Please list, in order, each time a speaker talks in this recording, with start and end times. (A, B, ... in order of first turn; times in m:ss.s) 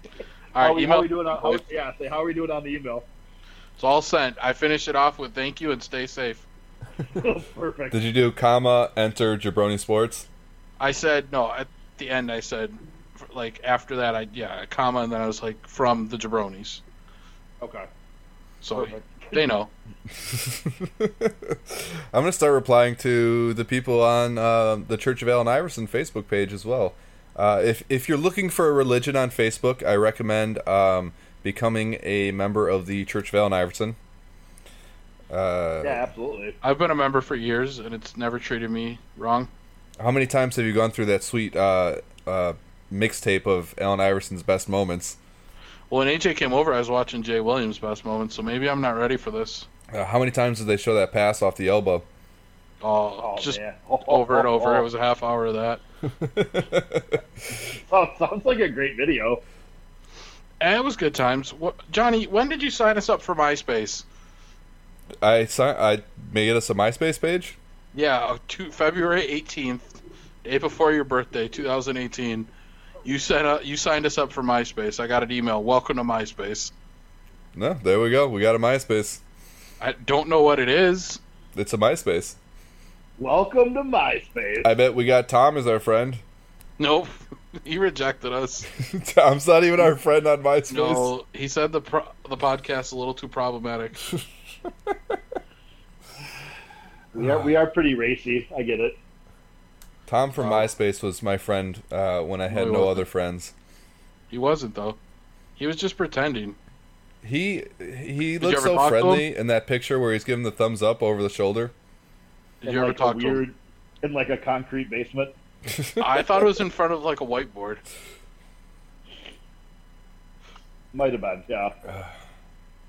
0:00.6-0:01.6 A
0:00.6-0:03.1 B
0:03.8-0:06.5 A
0:07.2-0:08.0 B
0:07.9-0:10.3 C
0:10.8-0:16.8 A
0:17.6-0:17.9 B
0:18.6-0:19.7 A
0:18.7-0:19.4 B
0:20.1-0:34.0 C
0:35.3-0:36.0 C
0:35.8-0:36.6 B
0:36.6-0:39.5 A
0:40.0-0:45.2 C
0:45.9-0:49.7 A
0:49.9-0:52.0 C
0:52.8-0:55.8 A
0:53.2-0:54.9 B
0:56.1-0:57.6 C
0:57.8-0:59.4 B
1:00.6-1:04.1 A
1:05.2-1:07.6 C
1:07.9-1:12.5 A
1:13.0-1:16.7 A
1:17.6-1:19.2 C
1:19.8-1:21.2 A
1:21.6-1:22.4 C
1:23.2-1:24.7 B
1:24.6-1:26.2 C
1:26.8-1:28.7 A
1:28.8-1:31.1 C
1:30.7-1:34.0 A
1:37.1-1:39.0 B
1:37.2-1:37.5 C
1:40.1-1:43.5 C
1:40.4-1:40.7 A
1:42.5-1:43.1 A
1:44.3-1:45.0 A
1:45.6-1:46.6 A
1:47.2-1:51.7 C
1:48.4-1:49.2 A
1:52.6-1:53.4 A
1:52.6-1:55.4 B
1:55.7-1:56.0 C
1:56.0-1:57.8 A
2:00.9-2:01.8 B
2:01.9-2:02.1 C